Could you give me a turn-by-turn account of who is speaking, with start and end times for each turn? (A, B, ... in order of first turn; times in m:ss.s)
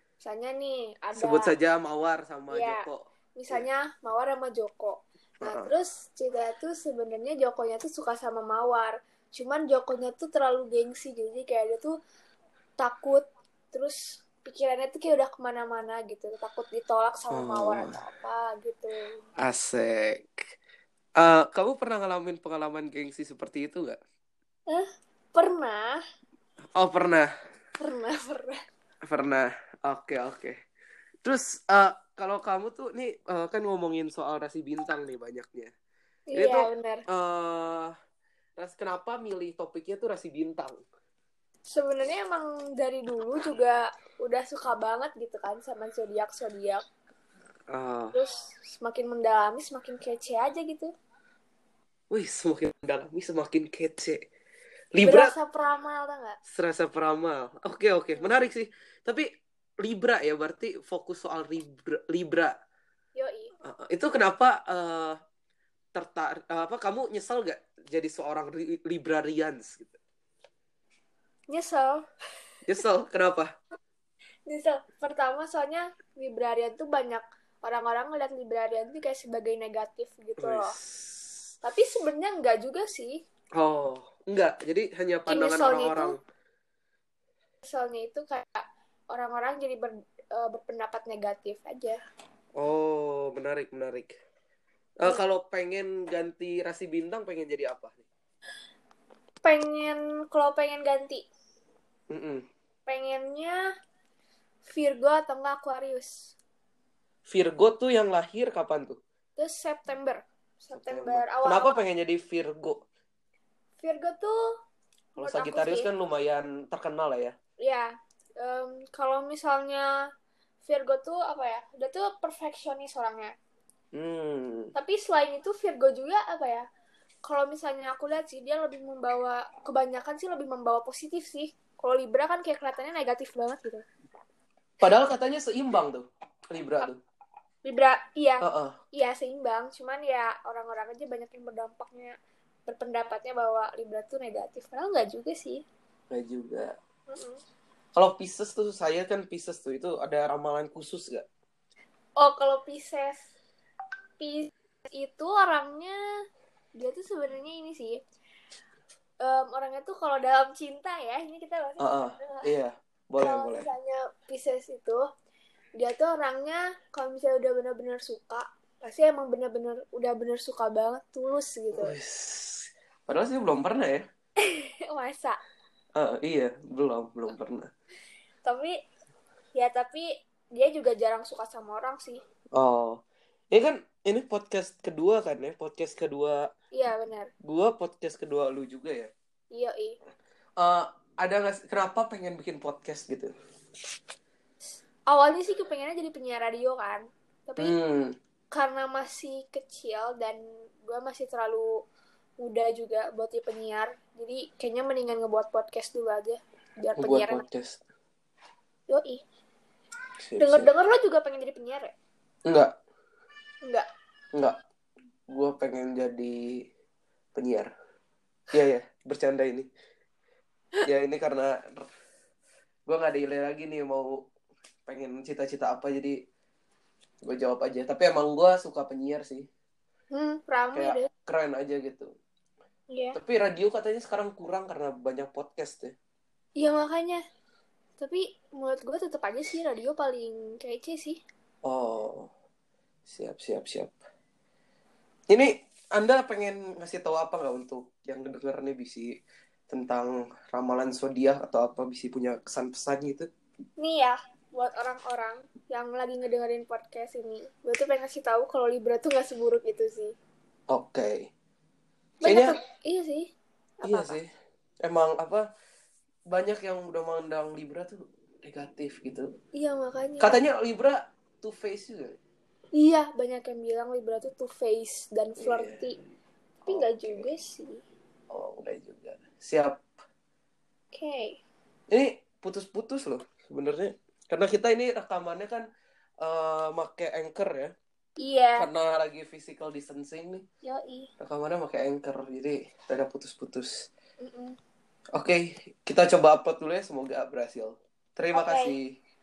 0:00.2-0:01.5 A
0:01.2-0:03.7 B
0:02.5-0:02.8 A
0:03.4-0:11.9 A
0:05.4-0:05.7 B
0:12.8-0:19.2 A
0:17.3-0:18.0 B
0:19.4-0:20.3 B
0:21.2-0:24.0 B
0:24.7-0:26.0 A
0:26.8-0:27.3 B
0:27.8-0:28.6 A
0:29.0-0:30.6 B
0:31.2-0:35.7 B
0:36.3-0:37.0 A
0:36.3-0:37.9 B
0:38.6-0:40.8 B
0:41.7-0:46.8 A
0:47.7-0:48.2 B
0:48.1-0:50.9 A
0:52.1-0:54.2 B
0:54.9-0:55.3 B
0:55.0-0:56.4 A
0:56.5-0:59.3 B
0:58.2-0:58.4 A
0:59.8-1:02.5 B
1:03.2-1:03.5 A
1:03.6-1:05.2 B
1:06.0-1:10.0 B
1:11.5-1:12.0 A
1:12.7-1:13.5 B
1:14.5-1:20.8 A
1:20.4-1:21.3 B
1:21.6-1:23.2 A
1:23.6-1:26.2 B
1:25.3-1:26.2 A
1:27.6-1:32.0 A
1:32.6-1:34.1 B
1:35.0-1:38.1 B
1:39.4-1:41.3 A
1:42.1-1:42.4 B
1:42.9-1:43.6 A
1:44.6-1:46.4 A
1:47.3-1:49.0 B
1:49.4-1:51.8 A
1:50.8-1:52.8 B
1:53.8-1:54.4 A
1:55.2-1:55.9 A
1:55.2-1:57.4 B
1:57.6-1:59.9 A
2:00.6-2:03.4 A
2:03.9-2:04.7 B
2:04.8-2:06.7 A
2:07.2-2:13.8 A
2:14.8-2:17.0 B
2:17.6-2:22.2 A
2:18.4-2:18.8 B
2:22.7-2:25.6 A
2:26.1-2:26.7 B
2:27.1-2:27.4 A
2:28.0-2:31.2 B
2:32.2-2:33.3 A
2:34.2-2:36.0 A
2:36.8-2:38.0 A
2:39.2-2:42.5 A
2:41.8-2:43.7 B
2:43.2-2:45.0 A
2:45.8-2:52.0 A
2:51.7-2:54.0 B
2:54.4-2:55.4 A
2:56.0-2:57.7 B
2:58.4-2:58.8 A
2:59.5-3:02.2 A
3:02.6-3:03.0 B
3:03.5-3:06.5 B
3:06.7-3:07.3 A
3:07.4-3:09.1 B
3:09.5-3:10.0 A
3:10.6-3:13.3 B
3:15.1-3:17.8 A
3:17.6-3:18.1 B
3:18.5-3:21.8 A
3:22.4-3:27.4 A
3:27.0-3:27.8 B
3:28.9-3:29.2 A
3:30.2-3:30.7 B
3:30.4-3:31.9 A
3:32.5-3:32.7 B
3:35.3-3:36.4 B
3:37.4-3:37.7 B
3:38.5-3:39.7 B
3:40.8-3:41.9 B
3:42.9-3:44.2 B
3:44.9-3:46.2 B
3:47.2-3:49.5 B
3:50.1-3:51.1 A
3:50.7-3:52.1 B
3:52.9-3:53.2 A
3:53.2-3:56.0 B
3:56.6-3:57.2 A
3:58.0-4:01.2 A
4:01.6-4:02.3 B
4:03.1-4:04.0 B
4:05.3-4:09.1 B
4:09.7-4:13.3 B
4:13.8-4:20.1 A
4:20.7-4:21.3 B
4:22.2-4:24.2 A
4:22.2-4:22.6 B
4:23.8-4:24.3 B
4:24.8-4:25.5 B
4:26.3-4:29.3 B
4:29.6-4:30.4 A
4:30.2-4:32.2 B
4:32.8-4:36.0 A
4:35.4-4:35.8 B
4:36.7-4:37.3 B
4:36.7-4:37.8 A
4:38.3-4:39.8 B
4:40.9-4:41.4 A
4:41.9-4:45.7 B
4:46.2-4:47.7 B
4:48.2-4:48.7 A
4:48.6-4:50.4 B
4:50.6-4:51.1 A
4:51.2-4:53.9 B
4:54.2-4:54.6 A
4:55.2-4:58.9 B
4:58.3-4:58.8 A